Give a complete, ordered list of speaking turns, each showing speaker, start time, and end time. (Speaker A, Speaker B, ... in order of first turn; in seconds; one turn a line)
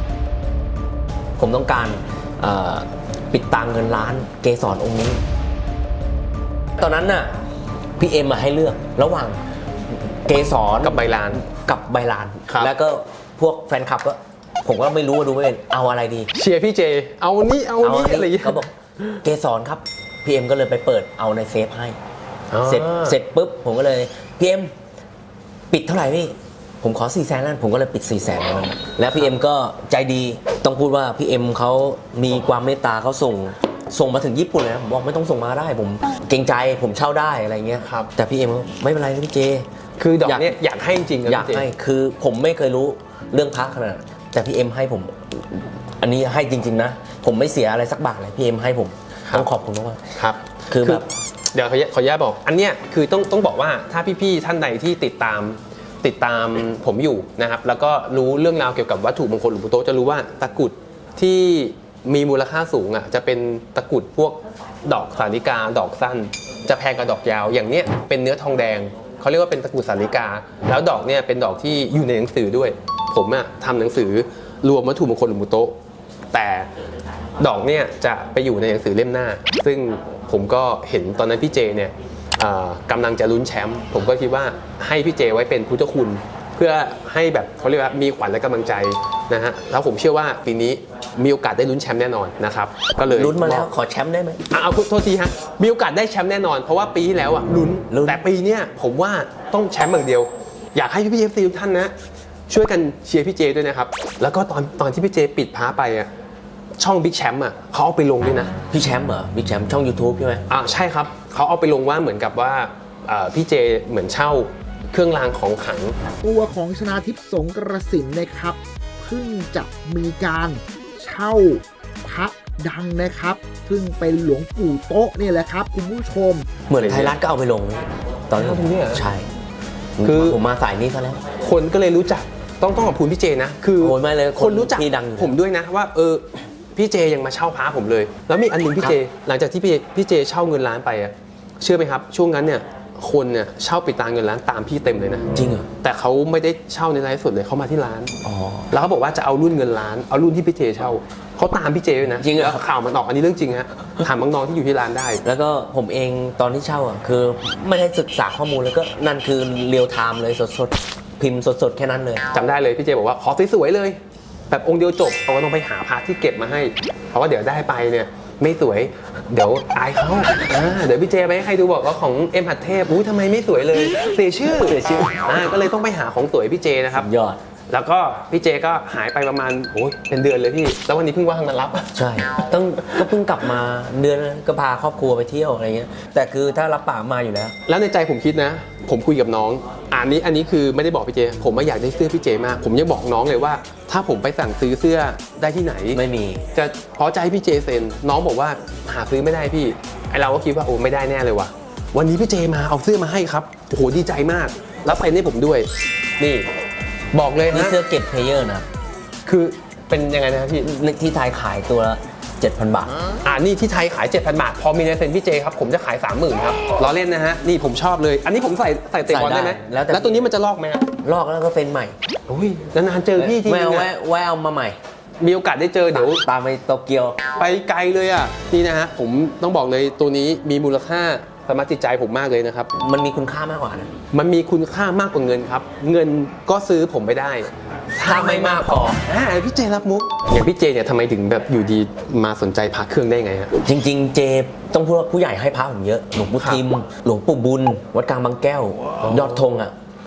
Speaker A: 1.4-5.2
Speaker A: 6.8-7.3
Speaker A: 8.0-9.4
Speaker A: 10.2-16.3
Speaker B: 10.8-11.4
Speaker B: 16.4-18.7
Speaker A: 17.8-18.7
Speaker A: 19.2-22.0
Speaker B: 22.5-23.2
Speaker A: 22.6-24.7
Speaker A: 25.7-39.6
Speaker B: 37.8-38.1
Speaker B: 40.0-41.7
Speaker A: 40.2-40.6
Speaker A: 41.2-50.0
Speaker B: 50.2-75.7
Speaker A: 50.7-51.0
Speaker B: 76.3-76.7
Speaker B: 77.4-93.7
Speaker A: 93.1-94.4
Speaker B: 94.5-101.9
Speaker A: 97.9-98.2
Speaker B: 102.5-106.1
Speaker B: 106.8-108.5
Speaker A: 108.7-110.4
Speaker B: 110.5-115.9
Speaker C: 116.2-126.5
Speaker A: 126.7-129.3
Speaker B: 126.8-127.2
Speaker B: 128.3-129.0
Speaker A: 130.0-131.2
Speaker B: 130.0-130.4
Speaker B: 131.4-145.3
Speaker A: 133.8-135.3
Speaker A: 145.3-145.7
Speaker B: 145.8-148.1
Speaker A: 148.2-148.7
Speaker B: 148.7-155.2
Speaker A: 152.2-152.6
Speaker A: 155.2-162.2
Speaker B: 162.3-164.0
Speaker B: 164.5-177.1
Speaker A: 174.7-175.3
Speaker A: 176.9-177.4
Speaker B: 177.7-182.0
Speaker A: 181.9-187.6
Speaker B: 187.7-196.0
Speaker A: 195.9-196.4
Speaker B: 196.5-205.7
Speaker B: 206.2-206.5
Speaker B: 207.1-207.8
Speaker A: 207.5-208.7
Speaker B: 209.2-210.7
Speaker A: 210.6-213.0
Speaker B: 213.2-220.8
Speaker A: 219.1-220.2
Speaker A: 221.0-221.9
Speaker B: 222.3-223.9
Speaker A: 223.2-224.8
Speaker B: 225.2-226.2
Speaker A: 225.9-227.2
Speaker B: 227.4-232.7
Speaker A: 232.8-233.9
Speaker B: 234.1-243.5
Speaker A: 238.0-239.0
Speaker A: 243.6-249.7
Speaker B: 246.4-246.6
Speaker B: 249.0-249.4